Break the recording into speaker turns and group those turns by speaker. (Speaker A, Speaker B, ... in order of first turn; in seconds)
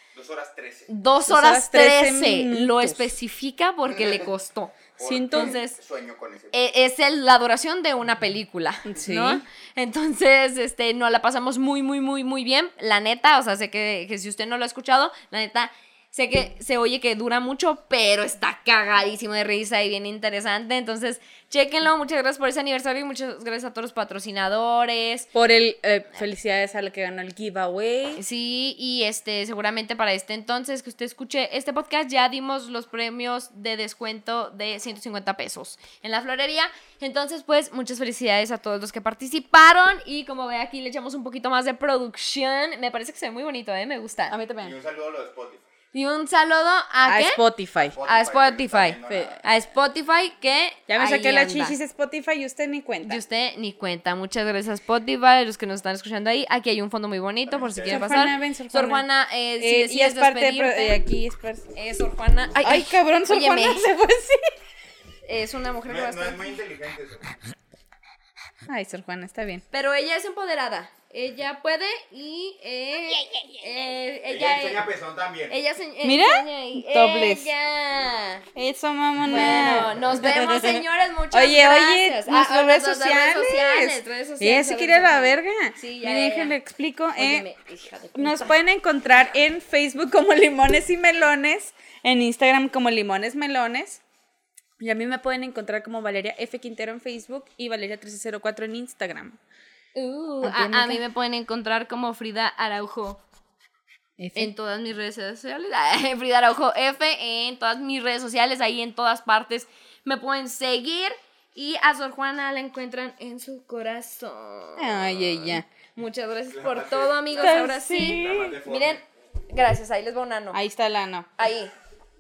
Speaker A: 0.1-0.9, 5.0-6.6, 44.6-45.6, 47.9-49.4, 57.5-58.2, 65.8-67.4, 74.3-75.6, 116.5-119.0
Speaker B: 0.9-4.8, 5.3-5.8, 6.5-25.3, 28.2-44.4, 45.9-47.4, 48.0-51.8, 53.0-61.0, 61.7-63.9, 65.3-66.4, 69.7-74.8, 75.5-78.4, 79.3-86.5, 87.2-88.5, 100.0-103.2, 104.3-120.6, 121.4-121.7
Speaker C: 1.3-3.1, 5.0-5.6, 8.9-9.4, 25.3-28.2, 44.3-44.8, 47.1-48.0, 49.1-49.4, 50.9-53.2, 57.8-59.0, 59.6-61.7, 62.6-64.5, 68.7-69.6, 76.0-77.5, 78.5-87.5, 88.2-94.0, 94.8-99.4, 100.4-101.0, 104.2-104.5, 114.8-115.7, 117.3-118.6, 120.5-121.3